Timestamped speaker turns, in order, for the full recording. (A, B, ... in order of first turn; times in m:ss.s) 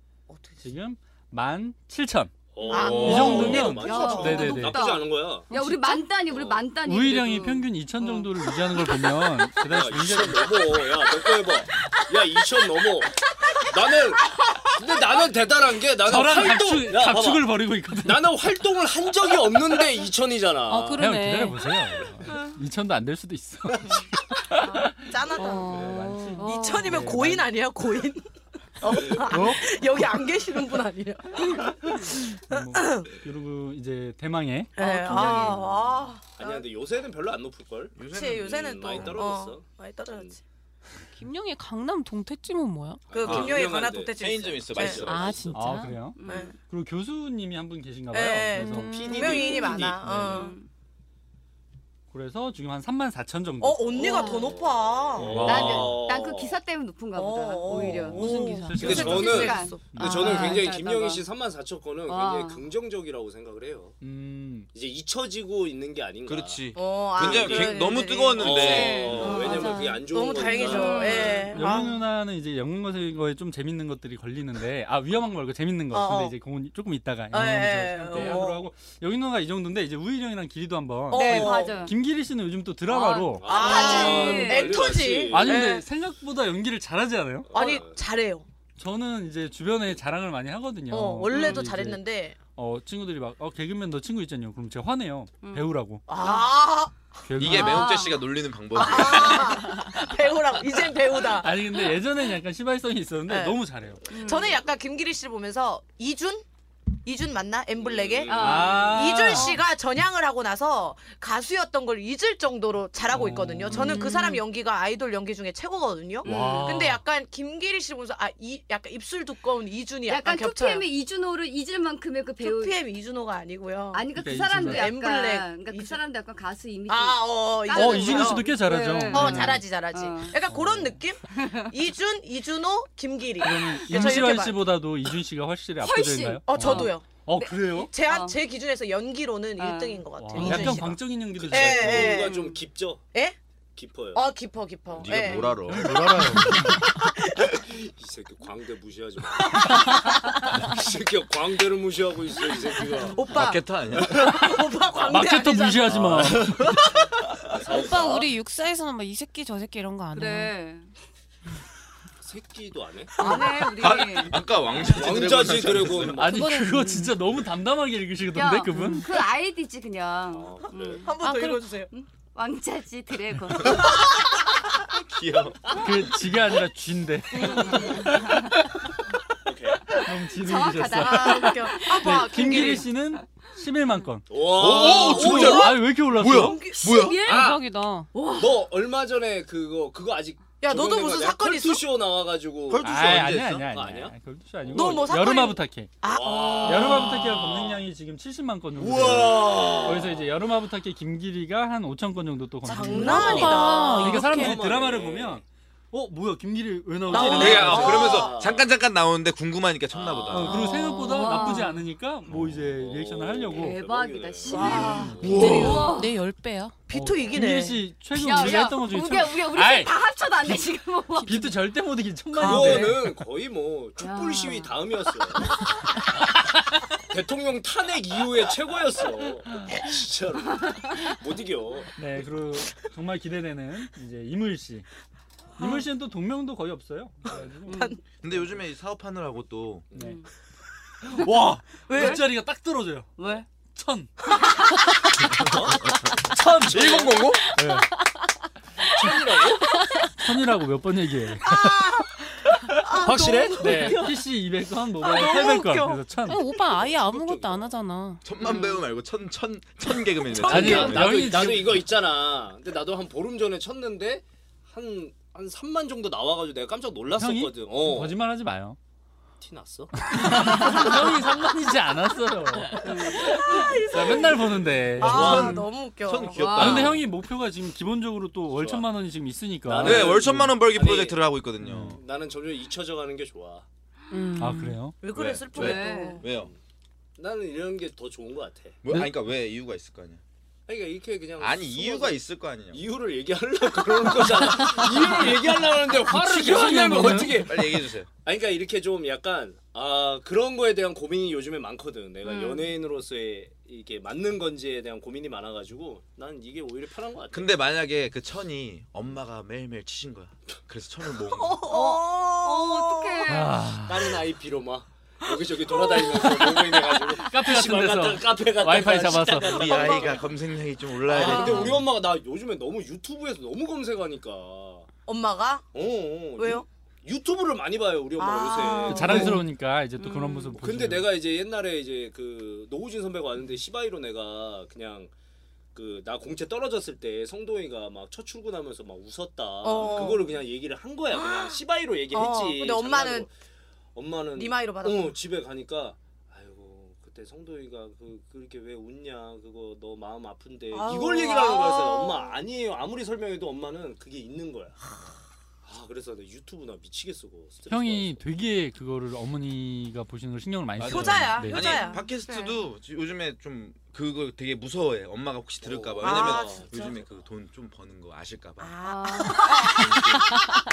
0:00.3-0:00.6 A
0:00.6-0:04.8 B
0:02.5-0:05.5 C
0:02.6-0:08.3 D
0:02.7-0:04.5 A
0:05.5-0:06.0 E
0:06.3-0:06.6 C
0:06.8-0:10.6 B
0:09.6-0:21.1 C
0:16.0-0:18.3 B
0:20.7-0:21.6 E
0:21.0-0:27.5 B
0:25.1-0:28.2 A
0:25.3-0:26.5 E
0:25.7-0:26.0 C
0:26.4-0:27.0 D
0:28.8-0:33.1 A
0:28.9-0:29.6 C
0:29.3-0:29.7 B
0:32.5-0:35.5 B
0:34.8-0:36.6 A
0:34.8-0:35.6 E
0:35.2-0:35.6 C
0:36.4-0:40.4 C
0:38.0-0:39.3 F
0:38.1-0:40.4 A
0:41.2-0:43.1 E
0:43.1-0:44.1 C
0:43.1-0:45.1 A
0:43.2-0:45.5 F
0:44.7-0:45.6 C
0:45.0-0:46.0 E
0:45.5-0:49.0 B
0:46.2-0:46.5 D
0:46.2-0:46.6 A
0:48.1-0:50.5 A
0:48.5-0:49.7 E
0:48.8-0:50.0 C
0:49.7-0:50.5 B
0:50.3-0:50.7 D
0:52.1-0:53.9 B
0:53.6-0:55.5 A
0:53.9-0:56.6 C
0:53.9-0:54.6 D
0:55.2-0:56.0 B
0:55.4-1:01.2 D
0:57.1-1:00.5 A
0:58.0-1:00.4 B
0:58.0-0:59.2 E
0:58.8-1:04.0 C
1:02.1-1:02.6 D
1:04.0-1:04.7 B
1:04.7-1:11.5 C
1:06.3-1:09.3 F
1:06.7-1:12.0 A
1:08.6-1:09.9 D
1:09.4-1:10.0 E
1:10.4-1:11.8 D
1:11.5-1:23.5 B
1:15.9-1:16.4 A
1:17.3-1:18.7 A
1:21.1-1:21.9 A
1:21.1-1:21.9 D
1:22.9-1:24.9 D
1:23.4-1:25.7 C
1:23.4-1:25.8 A
1:25.3-1:27.5 B
1:27.5-1:28.0 C
1:27.5-1:28.4 A
1:28.8-1:32.0 B
1:30.9-1:32.4 A
1:31.3-1:31.7 D
1:32.5-1:36.0 B
1:36.1-1:37.1 A
1:36.2-1:36.5 D
1:37.2-1:37.9 B
1:37.4-1:39.6 F
1:37.5-1:38.2 D
1:38.7-1:41.6 A
1:41.3-1:44.0 B
1:43.3-1:46.4 A
1:44.1-1:44.6 D
1:47.0-2:00.9 A
1:47.8-1:49.1 C
1:48.3-1:49.6 D
1:48.3-1:49.6 B
1:53.1-1:54.0 B
1:53.8-1:54.3 D
1:53.9-1:54.4 E
1:56.2-1:56.7 D
1:56.2-1:57.0 B
2:00.1-2:02.8 D
2:02.4-2:06.0 A
2:03.9-2:10.4 D
2:04.1-2:04.9 B
2:06.9-2:08.6 A
2:07.7-2:09.6 B
2:09.1-2:14.8 A
2:10.5-2:10.9 B
2:11.3-2:11.7 D
2:13.4-2:17.9 B
2:15.8-2:18.4 D
2:16.5-2:17.1 A
2:17.9-2:22.4 A
2:19.6-2:20.0 D
2:20.2-2:22.2 B
2:21.4-2:23.0 C
2:22.0-2:22.6 D
2:23.8-2:24.2 C
2:24.1-2:25.8 A
2:25.0-2:26.7 F
2:25.7-2:26.8 B
2:26.5-2:27.6 A
2:27.6-2:29.8 C
2:30.6-2:33.2 C
2:33.1-2:36.1 A
2:33.3-2:34.2 F
2:35.0-2:36.7 B
2:35.9-2:37.1 F
2:37.5-2:38.3 C
2:37.7-2:40.5 E
2:40.1-2:40.9 D
2:42.2-2:43.2 C
2:43.2-2:43.9 A
2:43.2-2:44.4 D
2:43.7-2:46.2 F
2:44.8-2:46.6 C
2:46.1-2:49.0 B
2:46.3-2:47.1 E
2:48.3-2:53.9 D
2:48.7-2:49.0 E
2:50.3-2:51.1 C
2:51.0-2:51.9 A
2:51.2-2:51.6 E
2:55.0-2:55.7 F
2:55.7-2:58.4 B
2:57.4-2:57.8 A
2:59.4-3:00.0 C
3:00.0-3:04.5 B
3:00.4-3:01.9 D
3:01.0-3:02.9 A
3:04.3-3:05.6 C
3:04.5-3:07.2 F
3:04.8-3:07.1 A
3:05.0-3:06.7 B
3:06.8-3:07.5 D
3:07.0-3:08.1 E
3:07.2-3:07.6 C
3:08.1-3:08.5 A
3:08.3-3:15.1 C
3:10.6-3:11.8 A
3:12.7-3:13.5 F
3:12.8-3:15.9 B
3:14.7-3:17.2 A
3:16.0-3:17.8 C
3:16.6-3:28.2 B
3:18.8-3:19.9 F
3:18.8-3:20.3 C
3:22.6-3:24.2 A
3:22.8-3:25.4 C
3:22.9-3:24.6 E
3:27.1-3:28.3 A
3:27.1-3:28.7 C
3:27.3-3:30.6 F
3:29.9-3:30.5 C
3:30.3-3:33.8 B
3:30.5-3:31.7 D
3:30.5-3:31.6 E
3:32.3-3:35.7 C
3:33.5-3:36.1 D
3:34.5-3:35.9 A
3:35.2-3:35.9 F
3:35.3-3:36.9 E
3:36.9-3:37.8 A
3:36.9-3:40.6 B
3:38.1-3:41.5 D
3:41.2-3:43.2 B
3:42.3-3:43.0 A
3:42.4-3:45.6 C
3:44.0-3:44.7 D
3:47.1-3:51.9 C
3:49.5-3:49.8 B
3:52.0-3:54.8 B
3:55.6-3:55.8 A
3:55.6-3:57.9 B
3:57.7-3:58.0 D
3:57.7-3:58.0 A
3:58.2-3:59.8 F
3:59.9-4:00.2 C
4:00.0-4:00.2 D
4:01.1-4:04.1 B
4:01.9-4:02.3 A
4:01.9-4:02.2 D
4:03.2-4:03.4 D
4:05.4-4:06.0 F
4:06.2-4:07.9 B
4:06.6-4:07.1 C
4:06.7-4:07.4 F
4:08.8-4:09.6 C
4:10.2-4:11.9 B
4:11.4-4:14.2 A
4:12.7-4:16.4 B
4:15.0-4:16.1 A
4:16.2-4:18.2 E
4:16.5-4:17.7 C
4:18.2-4:21.3 F
4:18.4-4:18.8 D
4:20.4-4:21.0 A
4:20.4-4:28.2 C
4:20.4-4:21.8 B
4:27.2-4:28.8 B
4:29.4-4:30.1 C
4:30.0-4:35.6 B
4:32.8-4:33.2 D
4:33.4-4:36.5 A
4:34.0-4:35.5 C
4:35.0-4:37.0 F
4:36.4-4:37.0 D
4:36.5-4:40.5 B
4:38.5-4:38.9 C
4:39.6-4:41.3 C
4:39.8-4:42.0 F
4:41.6-4:42.0 B
4:41.9-4:43.6 C
4:44.1-4:44.8 E
4:44.4-4:45.0 B
4:45.0-4:46.3 A
4:45.1-4:46.5 F
4:45.5-4:46.2 D
4:47.2-4:48.8 C
4:48.8-4:50.2 F
4:48.9-4:49.1 B
4:50.7-4:52.2 C
4:51.4-4:52.8 F
4:52.7-5:07.5 C
4:56.0-4:57.5 B
4:57.3-4:58.1 F
5:02.2-5:02.7 D
5:07.3-5:11.6 F
5:11.3-5:13.3 A
5:11.7-5:13.6 D
5:13.3-5:14.1 B
5:13.8-5:20.2 C
5:15.7-5:16.5 A
5:17.2-5:19.5 B
5:19.4-5:21.8 F
5:19.6-5:20.1 A
5:21.0-5:24.9 C
5:21.3-5:21.7 A
5:25.1-5:25.6 A
5:25.7-5:29.4 C
5:26.4-5:26.6 A
5:28.2-5:29.4 A
5:28.9-5:31.1 B
5:30.0-5:30.6 D
5:30.6-5:35.1 C
5:35.7-5:43.3 C
5:39.6-5:40.4 A
5:41.1-5:41.6 A
5:42.1-5:43.3 A
5:43.9-5:54.8 C
5:44.4-5:45.1 A
5:50.7-5:52.4 A
5:55.6-5:58.2 C
5:57.7-6:01.7 B
6:00.8-6:08.7 F
6:00.9-6:02.0 A
6:01.6-6:02.6 D
6:05.6-6:07.2 C
6:06.0-6:06.9 A
6:08.6-6:09.9 A
6:08.8-6:09.8 D
6:09.5-6:10.4 F